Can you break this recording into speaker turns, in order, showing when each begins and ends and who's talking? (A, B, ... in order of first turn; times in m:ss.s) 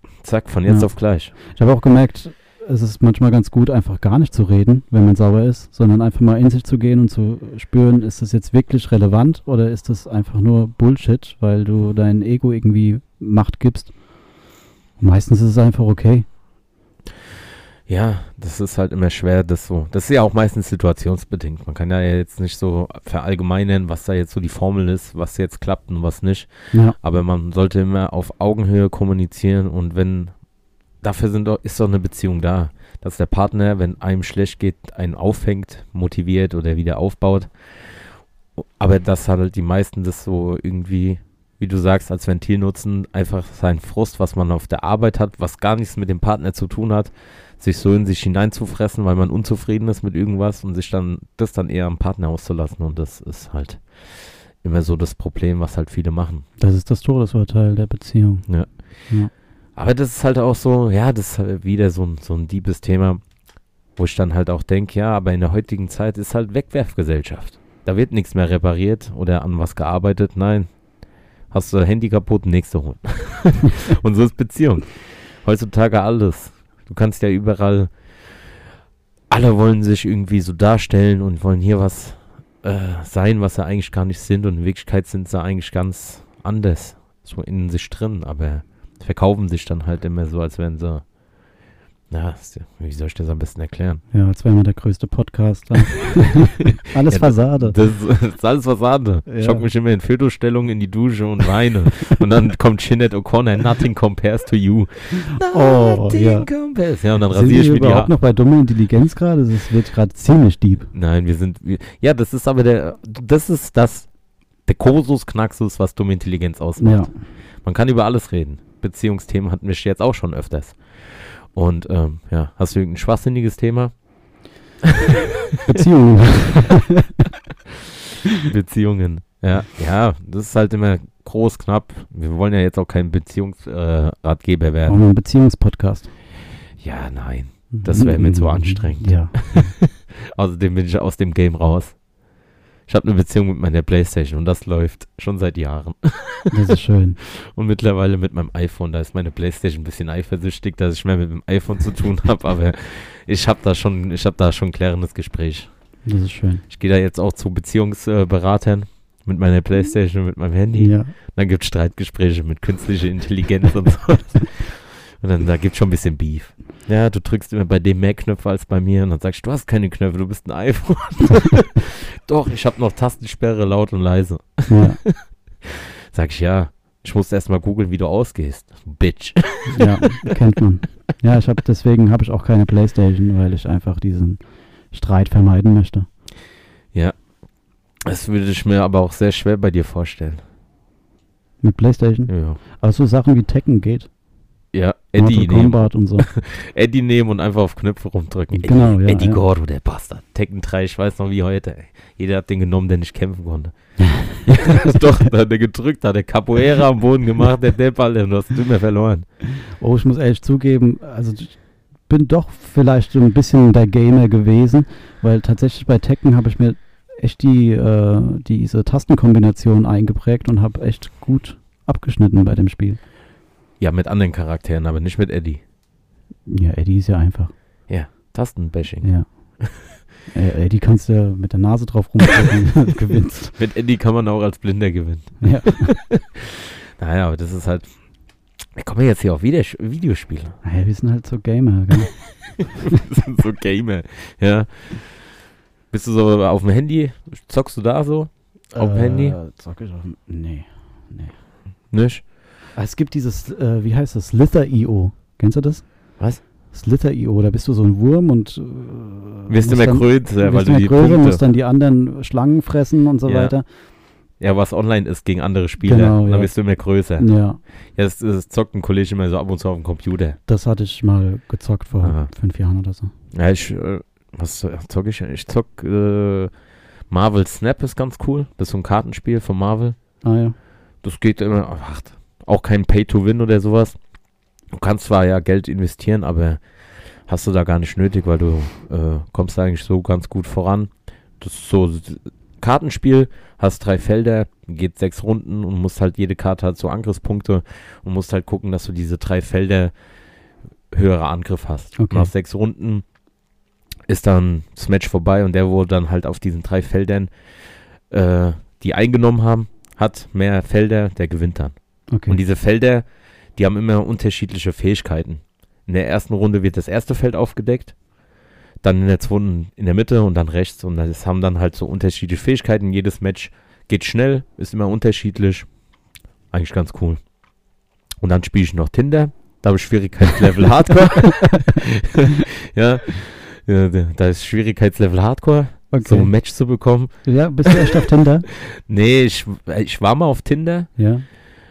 0:00.2-0:01.3 A
0:00.7-0:13.9 B
0:15.0-0:16.3 B
0:17.9-0:30.3 A
0:31.0-0:37.5 A
0:38.6-0:56.4 A
0:56.6-0:58.5 B
0:59.8-1:03.2 A
1:04.0-1:10.7 A
1:11.5-1:17.9 A
1:19.3-1:31.0 A
1:32.1-1:34.0 A
1:34.1-1:37.8 B
1:37.1-1:48.1 A
1:39.3-1:39.7 B
1:45.2-1:46.5 B
1:47.3-1:50.9 B
1:50.9-1:54.1 A
1:54.7-1:57.1 A
1:56.8-1:57.1 B
1:57.6-2:03.9 A
2:04.8-2:05.6 A
2:05.6-2:07.2 B
2:08.4-2:15.0 A
2:14.9-2:16.1 B
2:16.8-2:22.0 A
2:17.7-2:19.7 B
2:22.9-2:26.6 A
2:26.5-2:27.2 B
2:27.2-2:35.7 A
2:36.1-2:36.6 B
2:36.7-3:00.0 A
2:40.8-2:41.1 B
2:54.7-2:55.0 B
2:59.7-3:04.4 B
3:04.9-3:06.1 B
3:08.0-3:10.4 A
3:11.6-3:14.1 B
3:12.3-3:12.6 A
3:14.7-3:29.3 A
3:15.2-3:16.3 B
3:18.5-3:19.4 B
3:24.2-3:25.0 B
3:29.8-3:43.0 B
3:43.8-3:45.6 A
3:46.5-3:47.5 B
3:47.9-3:49.9 A
3:50.3-3:53.5 B
3:53.6-3:57.9 A
3:55.4-3:56.0 B
3:58.7-4:00.6 A
4:00.6-4:02.3 B
4:02.8-4:05.3 A
4:05.9-4:09.4 A
4:08.7-4:11.3 B
4:11.9-4:12.2 A
4:12.8-4:16.2 B
4:16.7-4:23.7 B
4:19.5-4:21.4 A
4:23.2-4:23.6 A
4:24.4-4:27.3 A
4:25.8-4:26.5 B
4:27.2-4:27.6 B
4:28.0-4:30.4 A
4:30.5-4:33.1 B
4:32.0-4:32.3 A
4:33.3-4:36.5 A
4:37.1-4:40.0 A
4:40.2-4:40.6 B
4:41.0-4:44.0 A
4:44.7-4:46.6 A
4:47.3-4:59.9 A
5:00.9-5:03.0 A
5:02.0-5:02.3 B
5:04.1-5:07.3 A
5:08.1-5:11.8 A
5:12.1-5:12.4 B
5:12.3-5:13.0 A
5:13.6-5:18.0 A
5:18.8-5:25.7 A
5:26.5-5:27.2 A
5:28.2-5:37.1 A
5:31.4-5:31.8 B
5:35.9-5:36.3 B
5:37.2-5:38.5 B
5:37.6-5:40.9 A
5:41.0-5:41.2 B